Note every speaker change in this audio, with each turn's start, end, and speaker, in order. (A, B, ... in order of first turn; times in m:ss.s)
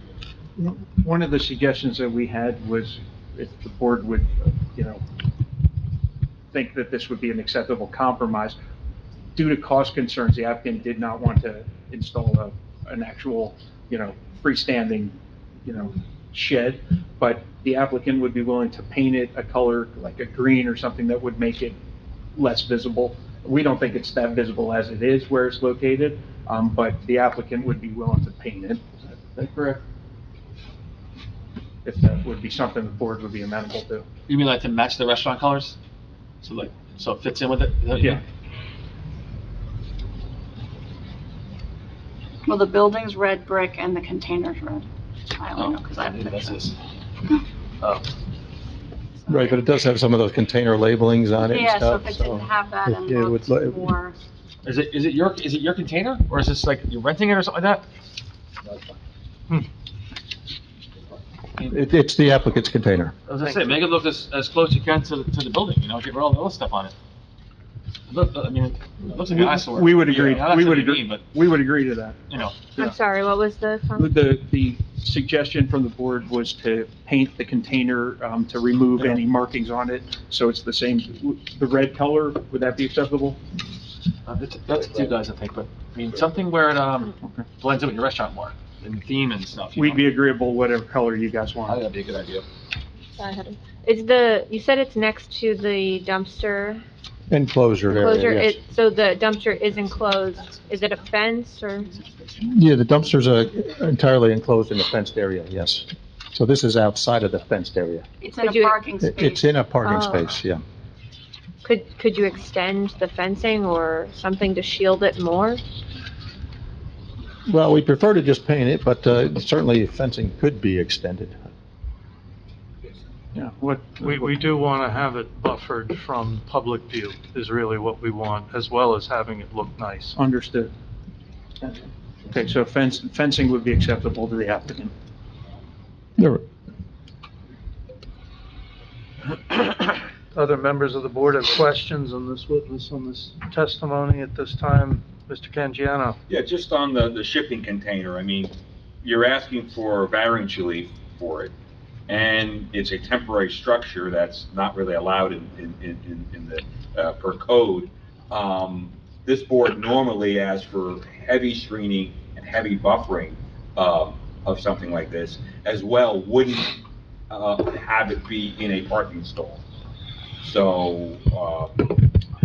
0:00.6-0:05.0 A
0:06.5-0:08.6 A
0:09.3-0:21.8 A
0:22.3-0:28.8 A
0:29.4-0:29.8 B
0:31.8-0:34.0 A
0:34.3-0:35.8 B
0:36.4-0:38.2 B
0:42.4-0:46.7 C
0:45.5-0:46.7 B
0:49.2-0:49.6 C
0:49.3-0:53.8 D
0:51.5-0:54.2 C
0:54.6-0:57.8 B
1:01.6-1:03.1 D
1:03.3-1:06.9 B
1:03.4-1:03.8 E
1:08.1-1:11.3 B
1:09.3-1:12.2 A
1:12.3-1:12.7 B
1:12.7-1:14.1 F
1:14.0-1:23.4 A
1:24.2-1:30.1 B
1:29.8-1:31.8 A
1:31.6-1:32.4 B
1:33.2-1:36.8 F
1:37.3-1:38.6 D
1:37.9-1:41.9 F
1:42.4-1:48.0 D
1:48.2-1:49.5 C
1:48.4-1:48.8 F
1:49.0-1:50.6 D
1:49.8-1:50.2 F
1:51.6-1:55.6 F
1:57.5-2:01.4 D
2:03.3-2:04.4 A
2:04.0-2:10.1 E
2:10.1-2:10.7 A
2:11.6-2:14.9 A
2:16.2-2:16.4 D
2:20.3-2:26.2 E
2:26.3-2:31.5 G
2:32.1-2:49.6 G
2:50.4-2:52.0 G